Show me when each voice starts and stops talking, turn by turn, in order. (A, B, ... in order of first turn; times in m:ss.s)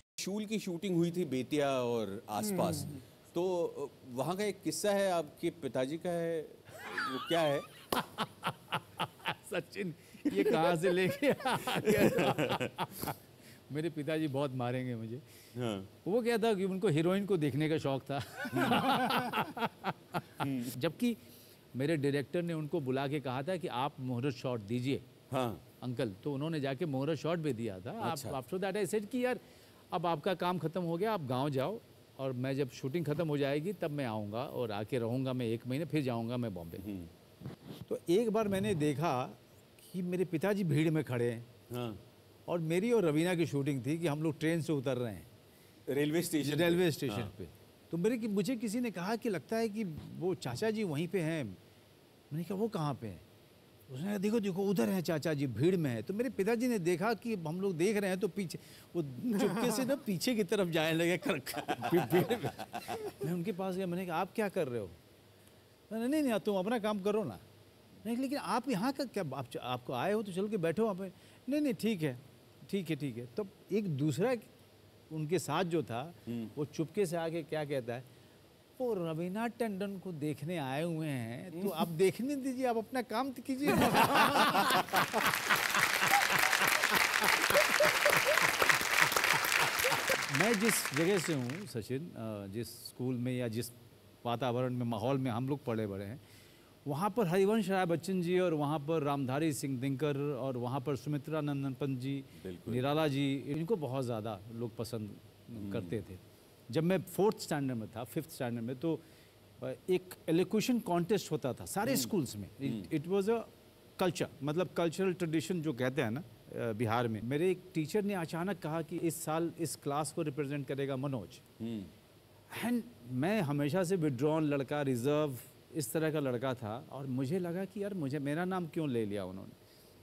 0:00.2-0:07.7 A
0:07.9-0:13.2 B
0:10.3-0:11.0 A
0:11.6-0:12.7 A
0:13.7-0:15.2 B
0:15.6-0:15.9 A
0:16.0-0:21.2 B
0:18.5-0:19.2 A
0:20.4-0:20.7 A
0:21.7-0:25.0 B
0:25.3-0:25.6 A
0:25.8-0:29.4 B
0:28.0-0:28.4 A
0:29.9-0:36.8 B
0:36.8-0:37.1 A
0:37.8-0:41.5 B
0:41.7-0:42.0 A
0:42.5-0:45.3 B
0:45.9-0:47.3 A
0:46.4-0:51.6 B
0:52.3-0:53.2 B
0:53.9-1:05.0 B
1:01.8-1:03.0 A
1:05.9-1:07.4 B
1:08.0-1:14.5 B
1:15.1-1:18.1 B
1:18.8-1:28.5 B
1:21.6-1:21.8 A
1:23.9-1:24.8 A
1:30.1-1:36.2 B
1:36.8-1:49.0 B
1:42.4-1:42.8 A
1:45.6-1:45.9 A
1:49.6-1:53.5 B
1:51.8-1:52.1 A
1:52.6-1:52.9 A
1:54.0-2:01.4 B
2:01.6-2:01.9 A
2:02.5-2:09.6 B